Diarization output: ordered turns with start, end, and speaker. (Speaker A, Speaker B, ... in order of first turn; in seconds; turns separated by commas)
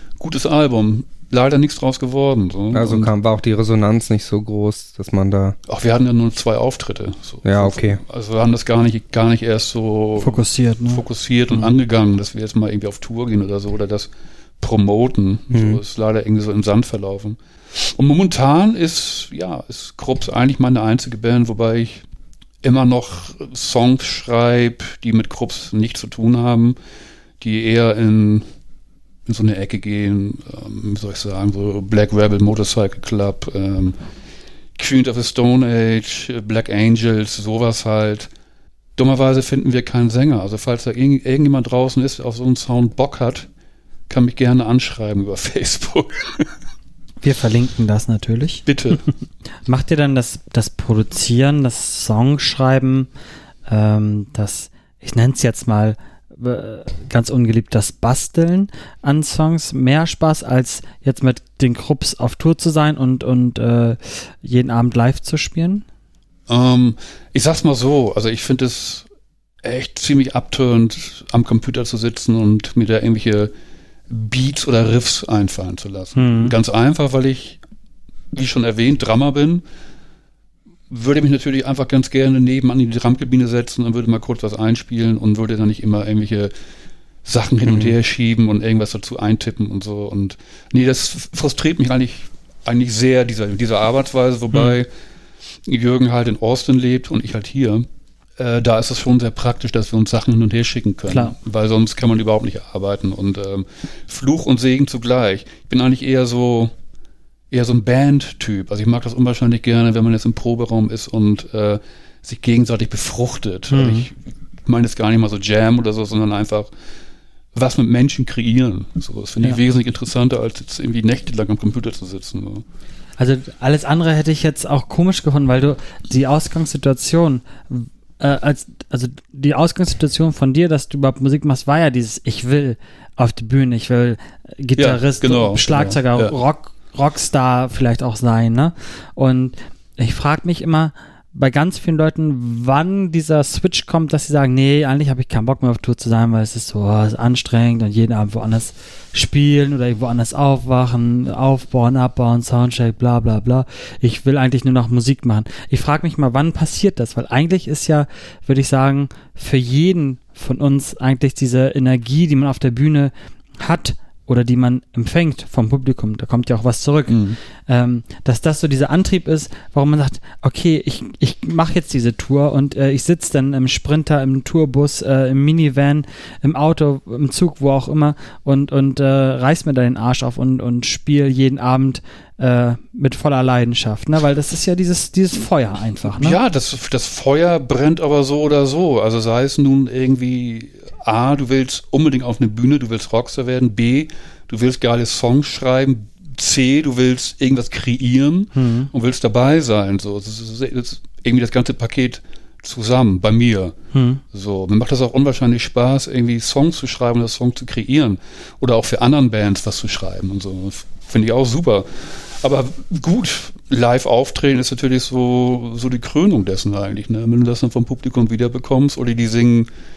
Speaker A: 0.2-3.1, Speaker B: 2.7-5.5, Speaker A: 5.7-22.0, Speaker B: 7.4-8.0, Speaker C: 10.2-11.7, Speaker B: 15.5-15.8, Speaker A: 22.6-26.8, Speaker A: 27.4-28.4, Speaker A: 29.3-34.0, Speaker A: 34.8-38.3, Speaker A: 39.0-43.5, Speaker A: 44.1-46.5, Speaker C: 47.2-48.6, Speaker A: 48.6-49.0, Speaker C: 49.6-53.1, Speaker C: 53.7-65.8, Speaker A: 66.5-69.1, Speaker A: 69.6-73.5, Speaker A: 74.1-77.6, Speaker C: 76.2-76.5, Speaker A: 78.3-79.6, Speaker A: 80.9-86.5, Speaker A: 87.2-94.9, Speaker B: 87.7-88.0, Speaker A: 95.7-97.8, Speaker A: 98.4-106.7, Speaker C: 101.1-101.3, Speaker A: 107.5-116.7, Speaker C: 113.7-114.1, Speaker A: 117.5-122.6, Speaker C: 123.2-186.4, Speaker A: 134.8-136.4, Speaker A: 167.1-167.4, Speaker A: 186.1-203.8, Speaker C: 198.6-198.9, Speaker C: 203.9-204.2, Speaker A: 204.3-219.7